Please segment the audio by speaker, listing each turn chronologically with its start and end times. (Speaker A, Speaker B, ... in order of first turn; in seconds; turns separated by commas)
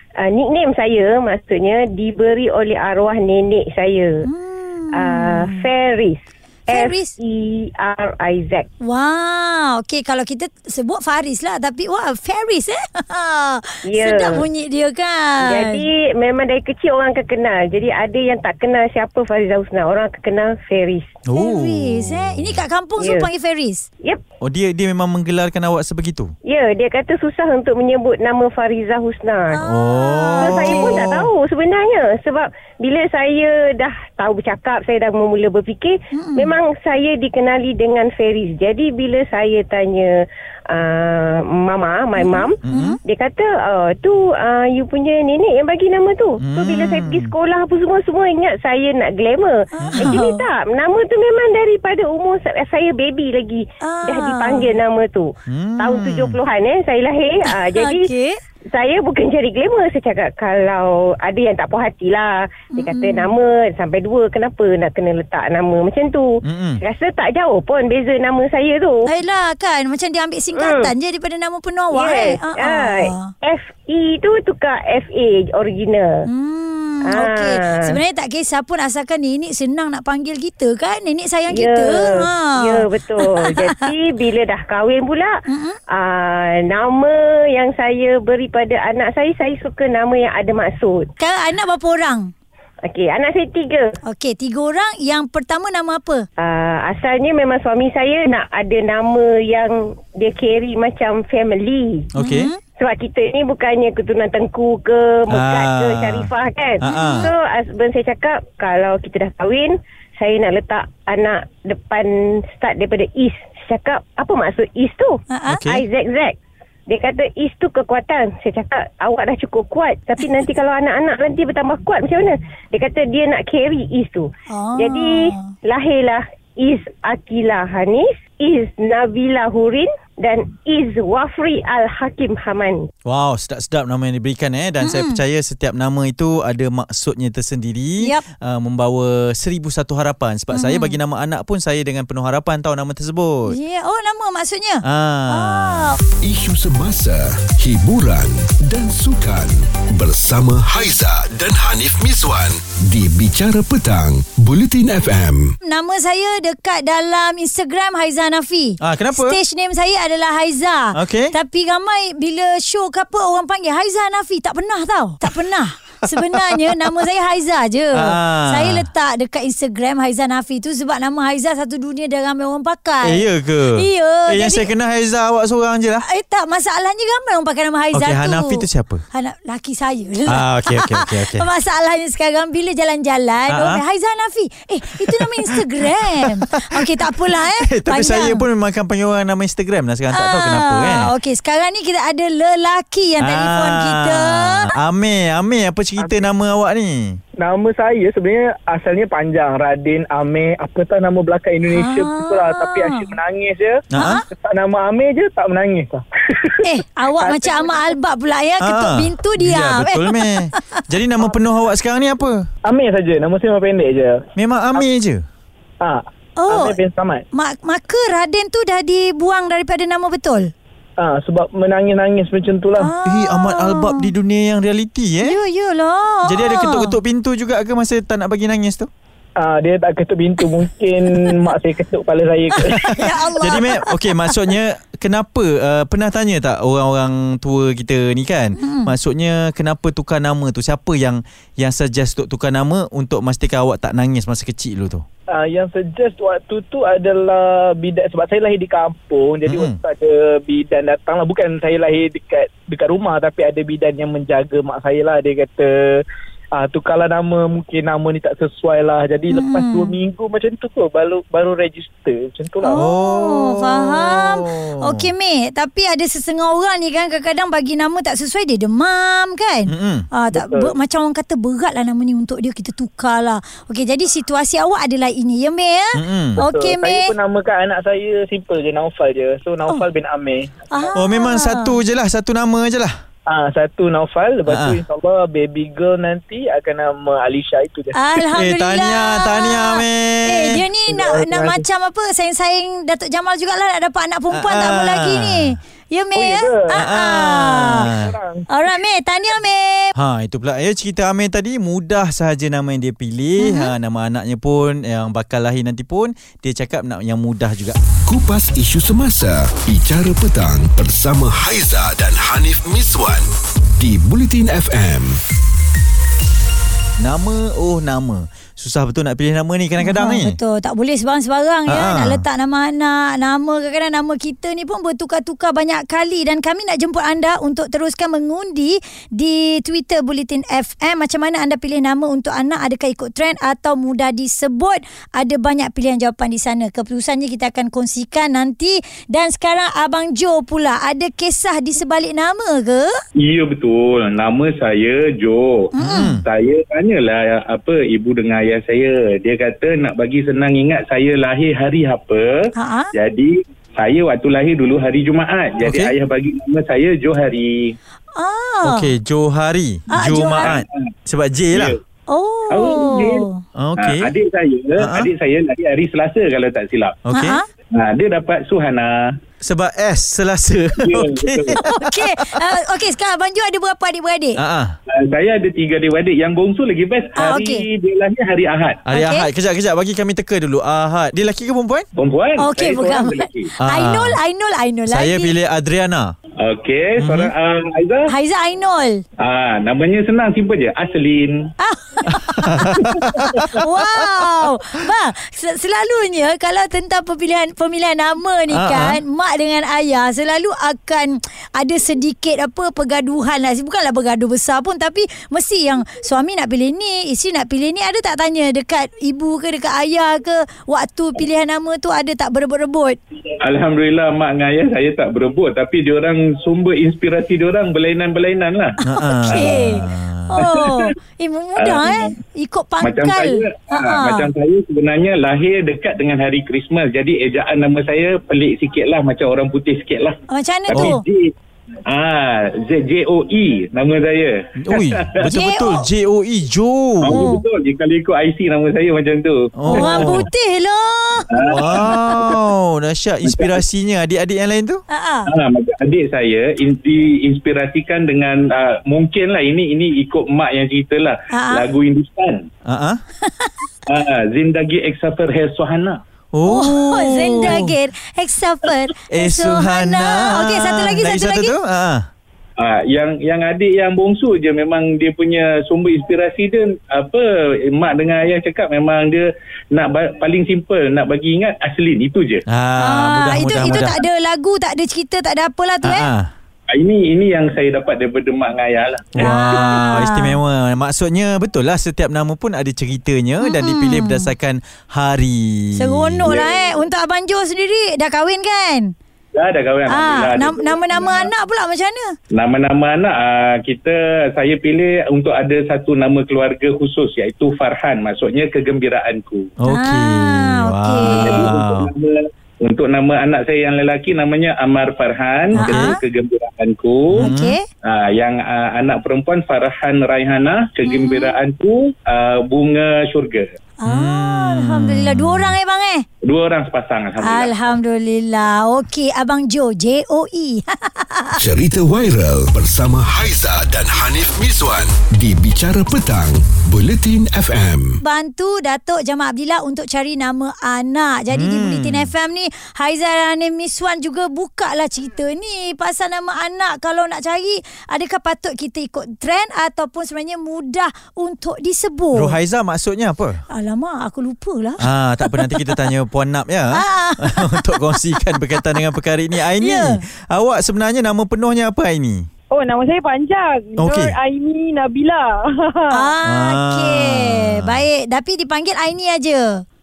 Speaker A: 0.2-4.3, Speaker B: 4.2-5.7, Speaker A: 4.9-8.7, Speaker B: 6.7-7.2, Speaker B: 8.8-15.9, Speaker A: 13.9-14.5, Speaker A: 15.4-21.1, Speaker C: 21.3-22.6, Speaker B: 21.3-23.9, Speaker A: 23.0-23.3, Speaker C: 24.4-26.4, Speaker A: 26.5-29.6, Speaker B: 29.5-31.1, Speaker C: 29.6-31.3, Speaker A: 30.4-40.1, Speaker B: 36.1-36.5, Speaker A: 40.7-58.1, Speaker B: 42.2-43.0, Speaker C: 42.6-43.0, Speaker C: 46.4-47.3, Speaker B: 49.8-50.4, Speaker C: 49.8-50.2, Speaker B: 53.8-54.8, Speaker C: 55.5-56.4, Speaker B: 57.5-58.4, Speaker A: 58.7-69.1, Speaker B: 62.7-63.4, Speaker C: 66.4-66.8, Speaker B: 69.0-73.3, Speaker A: 70.5-70.9, Speaker A: 71.9-76.3, Speaker B: 76.3-83.8, Speaker A: 77.0-78.0, Speaker A: 81.5-85.3, Speaker B: 85.5-85.8, Speaker A: 85.9-91.1, Speaker B: 91.2-92.3, Speaker A: 92.8-93.9, Speaker B: 94.0-96.3, Speaker A: 96.4-102.1, Speaker C: 102.1-102.5, Speaker B: 102.2-102.6, Speaker A: 102.8-116.3, Speaker C: 105.3-107.3, Speaker B: 106.8-107.3, Speaker B: 115.3-115.6, Speaker C: 115.5-115.8, Speaker A: 116.9-132.9, Speaker B: 124.5-125.5, Speaker C: 133.1-143.6, Speaker B: 134.8-135.2, Speaker B: 140.5-141.0, Speaker B: 143.5-146.0, Speaker C: 144.8-146.0, Speaker D: 146.2-155.6, Speaker B: 155.6-174.7, Speaker C: 158.8-159.4, Speaker C: 160.9-161.3, Speaker C: 166.1-166.8, Speaker C: 167.9-168.9, Speaker C: 173.0-176.1, Speaker B: 176.0-188.5, Speaker C: 177.9-179.0, Speaker C: 180.3-181.5, Speaker C: 183.5-183.8, Speaker C: 185.1-185.6, Speaker C: 186.2-191.1, Speaker B: 190.1-194.7, Speaker C: 193.2-197.2, Speaker E: 196.0-196.3, Speaker E: 197.4-207.8, Speaker B: 201.7-203.1, Speaker C: 203.9-204.2, Speaker B: 203.9-204.3, Speaker B: 206.6-210.8, Speaker C: 208.6-212.5, Speaker E: 212.7-214.2, Speaker C: 214.4-215.2, Speaker E: 215.8-217.2, Speaker B: 216.4-216.8, Speaker B: 217.3-220.5, Speaker E: 221.0-222.9, Speaker B: 222.8-224.1, Speaker C: 223.1-225.4, Speaker B: 225.2-227.0, Speaker C: 226.2-228.9, Speaker E: 229.4-232.9, Speaker B: 232.6-234.3, Speaker C: 232.6-245.0, Speaker B: 238.6-238.9, Speaker E: 245.3-256.0, Speaker C: 249.5-249.8, Speaker E: 256.6-262.8, Speaker B: 259.3-259.9, Speaker B: 262.6-277.1, Speaker C: 262.8-265.1, Speaker C: 269.7-270.1, Speaker E: 270.3-270.7, Speaker C: 275.9-276.4, Speaker E: 276.4-280.9, Speaker B: 280.7-281.8, Speaker C: 280.9-282.9, Speaker E: 283.3-288.2, Speaker C: 284.5-284.8, Speaker B: 287.9-297.9, Speaker C: 288.3-290.6, Speaker E: 290.9-291.6, Speaker C: 294.3-295.6, Speaker E: 296.1-298.6, Speaker C: 296.7-298.1, Speaker B: 298.5-299.9, Speaker C: 299.9-307.8, Speaker B: 303.4-303.7, Speaker D: 308.1-315.2, Speaker C: 317.0-320.4, Speaker B: 319.8-342.9, Speaker C: 321.7-322.3, Speaker F: 343.2-357.8, Speaker B: 345.8-346.2, Speaker C: 345.8-346.2, Speaker B: 352.6-352.9, Speaker C: 355.6-355.9, Speaker B: 358.1-358.9, Speaker C: 358.6-361.8, Speaker B: 359.9-360.5, Speaker F: 360.1-360.8, Speaker B: 362.1-363.4, Speaker F: 362.5-363.3, Speaker C: 363.6-364.1, Speaker F: 363.8-367.0, Speaker C: 364.8-365.1, Speaker C: 367.1-367.4, Speaker B: 367.1-367.5, Speaker F: 367.7-369.2, Speaker C: 369.4-372.4, Speaker F: 370.7-371.6, Speaker B: 371.6-374.4, Speaker C: 374.4-374.8, Speaker F: 374.9-378.9, Speaker B: 377.2-377.6, Speaker C: 378.9-381.9, Speaker B: 378.9-379.3, Speaker F: 382.0-383.5, Speaker B: 382.4-385.3, Speaker C: 383.6-384.2, Speaker C: 384.9-386.1, Speaker F: 386.4-388.1, Speaker C: 387.0-387.3, Speaker B: 388.1-389.0, Speaker F: 389.2-391.5, Speaker B: 391.6-413.0, Speaker C: 392.1-394.5, Speaker F: 392.8-393.4, Speaker C: 398.5-399.0, Speaker F: 413.4-419.9, Speaker C: 418.8-420.4, Speaker B: 418.9-424.3, Speaker F: 420.4-420.9, Speaker F: 421.6-422.1, Speaker F: 422.8-430.2, Speaker B: 430.3-431.0, Speaker F: 430.7-431.3, Speaker F: 431.9-435.2, Speaker C: 434.6-437.3, Speaker B: 435.3-435.9, Speaker F: 437.0-440.2, Speaker C: 439.6-440.3, Speaker B: 439.7-441.3, Speaker F: 441.3-442.4, Speaker C: 441.4-444.8, Speaker F: 443.3-443.6, Speaker B: 444.9-445.3, Speaker F: 445.3-452.5, Speaker B: 451.3-451.7, Speaker C: 452.7-453.0, Speaker B: 453.2-453.5, Speaker F: 453.9-456.0, Speaker C: 456.3-457.7, Speaker B: 456.4-461.6, Speaker C: 459.1-462.1, Speaker F: 462.6-472.4, Speaker C: 472.5-474.0, Speaker B: 472.8-476.1, Speaker C: 475.8-476.3, Speaker F: 476.7-479.8, Speaker C: 479.1-486.3, Speaker B: 479.2-480.4, Speaker B: 483.4-484.3, Speaker B: 485.8-488.9, Speaker F: 486.3-486.8, Speaker F: 489.3-491.3, Speaker B: 489.9-492.2, Speaker F: 492.3-499.5, Speaker C: 499.6-501.9, Speaker B: 499.7-501.5, Speaker F: 501.0-507.3, Speaker C: 505.5-506.0, Speaker B: 505.6-506.0, Speaker C: 507.1-507.6, Speaker B: 507.2-507.7, Speaker F: 507.8-513.5, Speaker B: 510.9-511.4, Speaker B: 513.8-516.1, Speaker C: 513.9-515.6, Speaker F: 516.2-517.8, Speaker B: 517.2-521.4, Speaker D: 521.4-528.0, Speaker B: 528.0-542.4, Speaker C: 531.3-532.1, Speaker C: 542.1-543.4, Speaker B: 543.5-545.9, Speaker C: 544.8-552.3, Speaker B: 546.7-550.0, Speaker G: 552.5-556.1, Speaker C: 553.8-554.1, Speaker B: 555.9-559.6, Speaker C: 556.2-557.9